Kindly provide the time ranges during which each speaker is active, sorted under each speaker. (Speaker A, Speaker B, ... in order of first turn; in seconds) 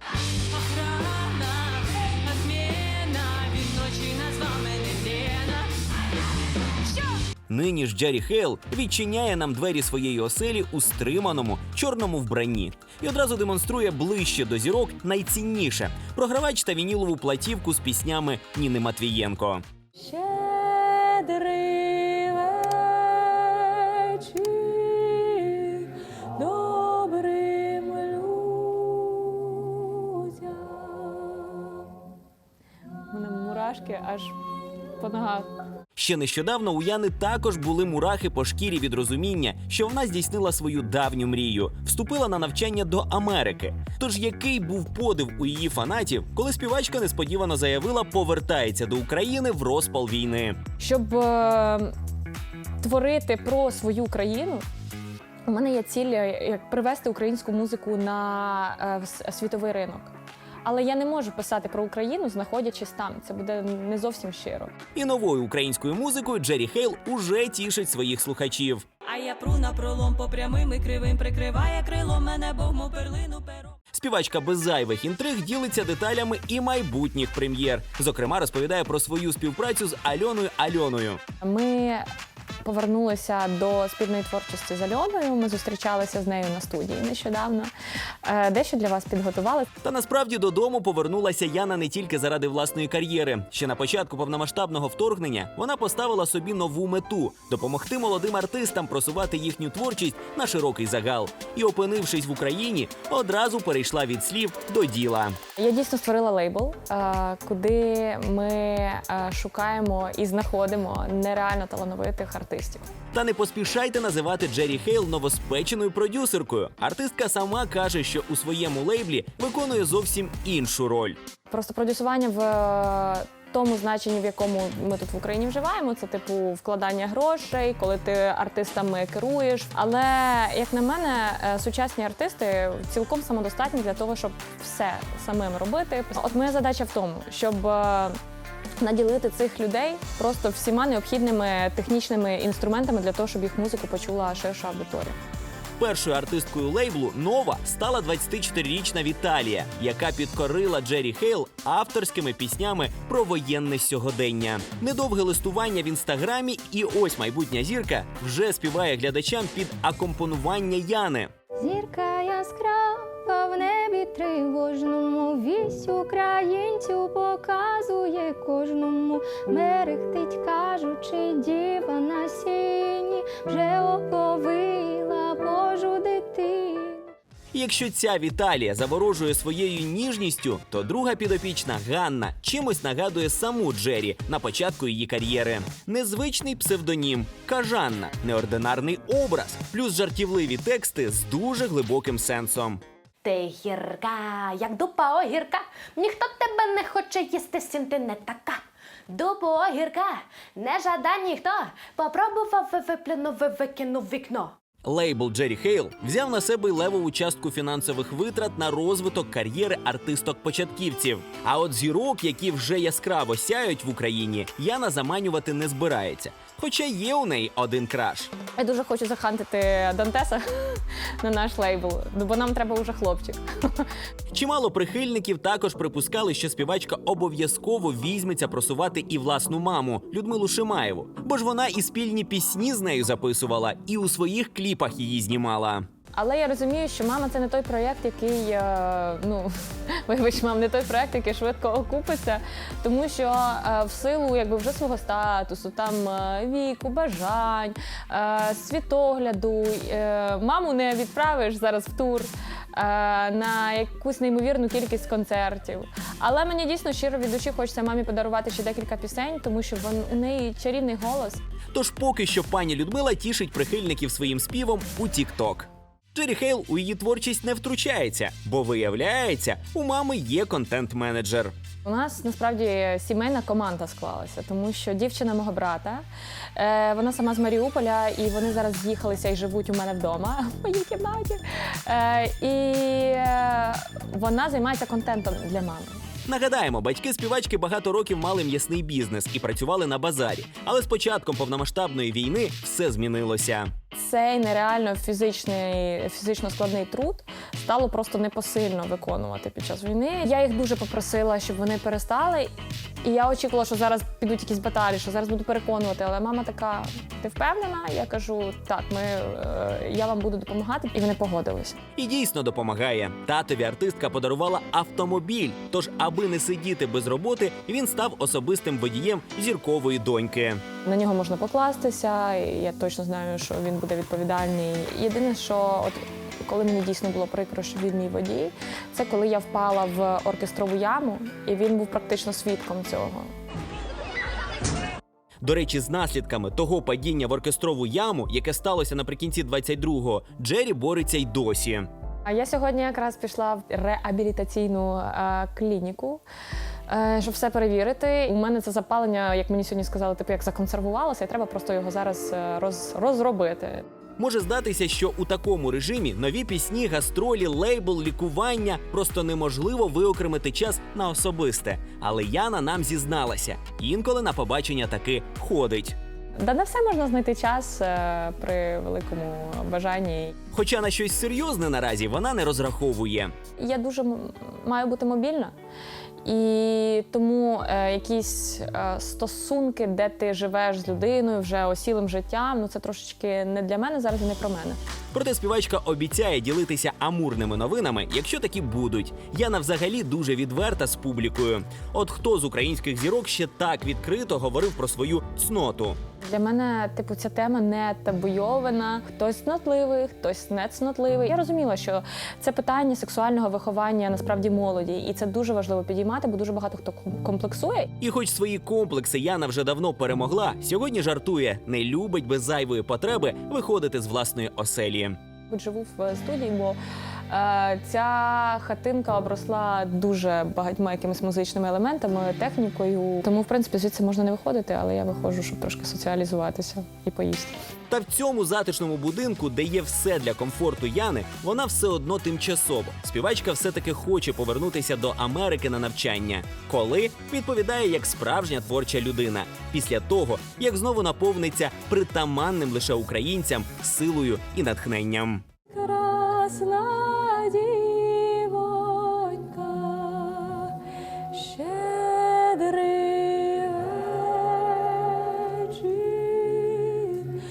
Speaker A: 0.5-5.8, 69.1-73.8
Speaker B: 7.5-19.6, 36.0-50.6, 65.0-68.8, 73.9-81.2, 89.8-105.3, 113.1-121.2, 145.8-161.3, 177.5-192.8, 204.9-218.3, 224.3-235.8, 261.7-271.5, 286.3-293.7, 312.0-320.6, 335.4-341.9, 354.2-366.0, 370.5-373.3, 385.1-396.0, 408.0-415.2, 427.9-445.4
Speaker C: 20.0-25.9, 26.4-31.6, 33.1-34.4, 35.0-35.5, 50.8-51.9, 52.8-54.6, 55.5-60.1, 60.6-64.7, 81.4-82.0, 82.6-87.7, 88.2-89.7, 105.6-112.8, 121.5-138.2, 138.8-145.2, 218.5-223.9, 236.2-261.4, 271.9-286.0, 293.9-302.5, 303.0-311.8, 320.8-333.3, 342.3-346.2, 346.9-353.8, 366.4-370.3, 373.6-375.6, 376.2-384.8, 396.2-407.9, 415.5-416.8, 417.3-427.6, 445.7-450.8, 451.3-457.3
Speaker D: 161.6-177.1
Speaker E: 193.2-204.5